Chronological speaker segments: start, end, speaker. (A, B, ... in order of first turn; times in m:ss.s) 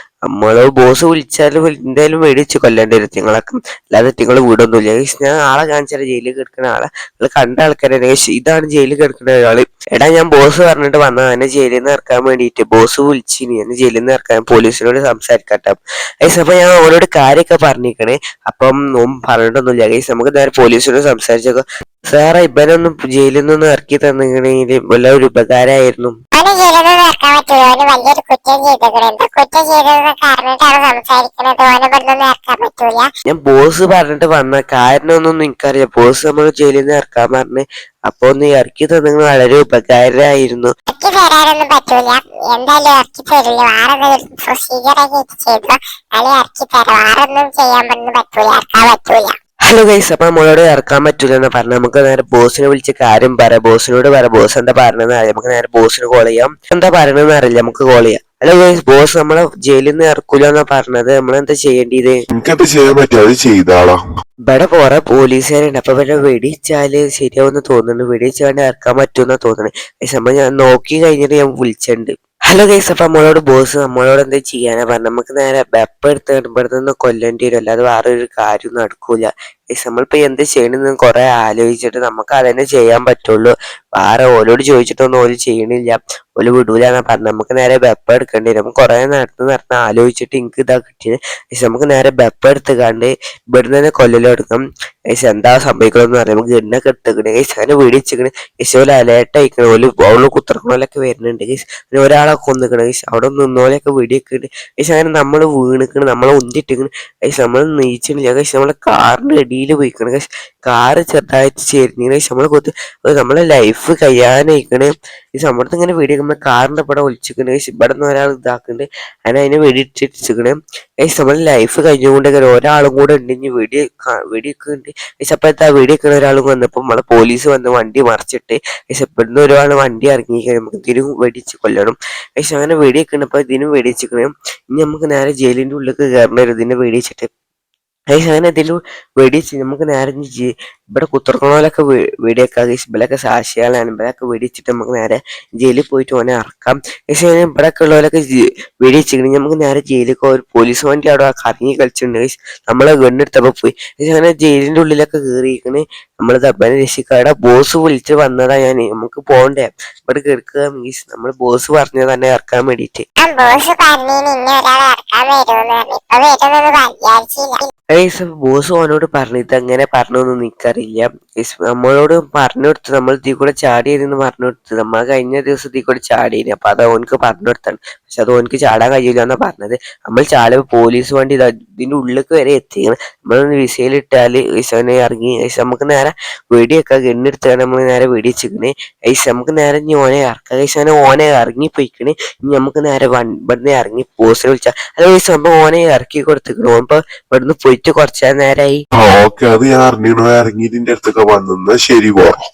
0:00.3-0:26.2 A
0:26.4-0:33.1 B
0:33.3-0:40.7 A
0:40.9-0:49.4 B
0:49.7-1:02.2 A
1:02.3-1:04.0 C
1:04.5-2:17.3 A
2:18.1-2:43.0 A
2:43.2-2:47.7 B
2:47.9-3:18.8 A
3:19.0-3:22.4 C